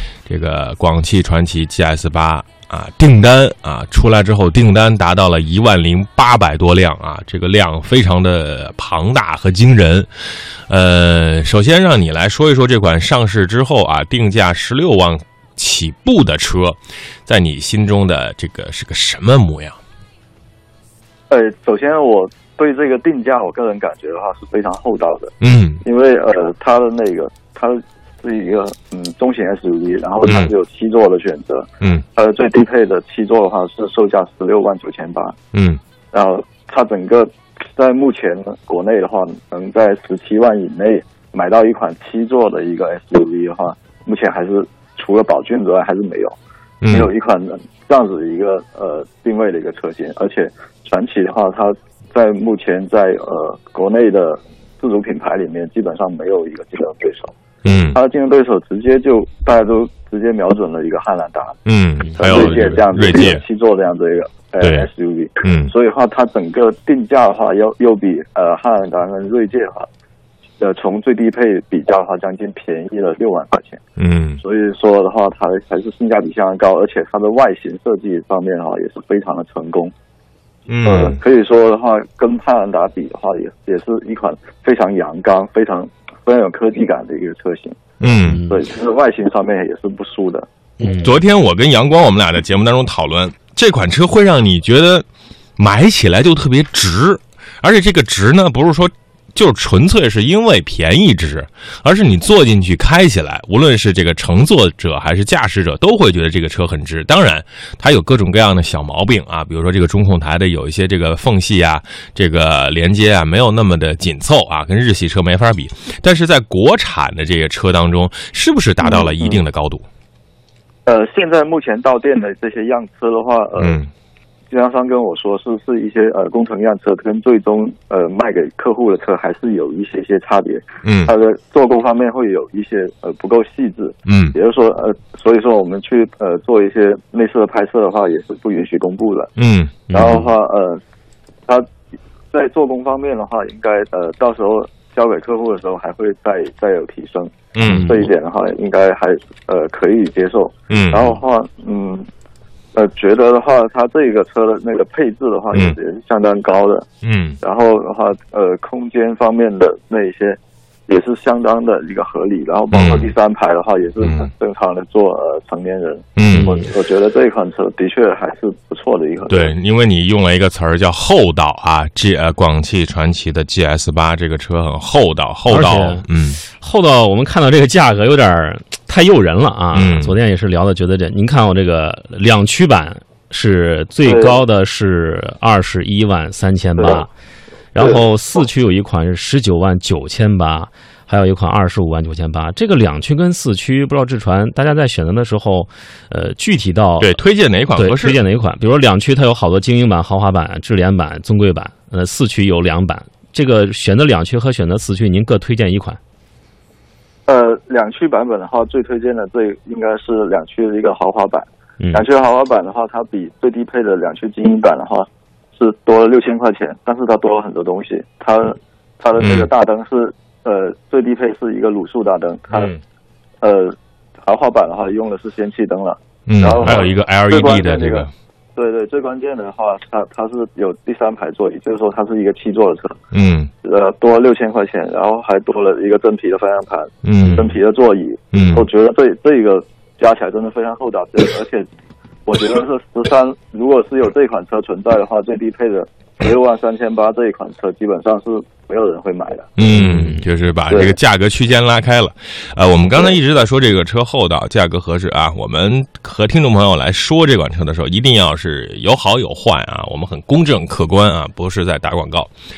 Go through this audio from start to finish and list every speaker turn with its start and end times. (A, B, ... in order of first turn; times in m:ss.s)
0:00.3-0:10.1 A
0:10.7-0:19.8 A
0:21.3-0:35.4 B
0:25.4-0:25.8 A
0:30.2-0:30.5 A
0:35.5-0:35.8 A
0:36.1-0:46.4 B
0:46.8-0:47.1 A
0:46.9-0:57.3 B
0:57.6-0:58.0 A
0:57.9-1:01.6 B
1:01.7-1:03.4 A
1:02.2-1:09.9 B
1:04.6-1:04.9 A
1:05.4-1:05.7 A
1:10.6-1:13.8 B
1:14.0-1:14.4 A
1:14.4-1:19.9 B
1:20.7-1:21.2 A
1:20.8-1:27.8 B
1:28.0-1:28.5 A
1:28.3-1:28.6 C
1:28.5-1:30.5 B
1:30.8-1:35.1 A
1:30.8-1:31.1 C
1:35.6-1:59.8 A
1:58.8-1:59.4 B
2:00.9-2:03.8 B
2:03.6-2:03.9 A
2:04.5-2:19.3 B
2:10.8-2:11.1 A
2:14.1-2:14.4 A
2:19.4-2:19.8 A
2:19.9-2:20.3 C
2:19.9-2:20.8 B
2:22.3-2:32.1 B
2:27.6-2:27.9 A
2:27.7-2:28.1 C
2:30.7-2:31.2 A
2:32.8-2:36.9 B
2:37.0-2:37.4 A
2:37.4-2:49.5 B
2:42.7-2:43.1 A
2:44.0-2:44.3 A
2:46.2-2:46.5 A
2:46.3-2:46.7 C
2:49.3-2:56.4 A
2:55.5-3:07.1 C
2:59.7-3:00.2 A
3:04.0-3:04.4 B
3:06.8-3:07.1 B
3:07.7-3:17.1 C
3:07.8-3:08.0 B
3:17.0-3:18.2 A
3:17.8-3:26.0 C
3:27.3-3:42.7 B
3:39.2-3:39.5 A
3:42.5-3:42.8 A
3:43.4-3:53.0 B
3:46.3-3:48.1 A
3:53.1-3:53.5 A
3:53.6-4:01.7 B
3:57.0-3:57.6 A
3:58.3-3:58.7 A
4:02.3-4:09.5 B
4:09.6-4:22.3 A
4:09.7-4:10.2 C
4:10.7-4:11.0 B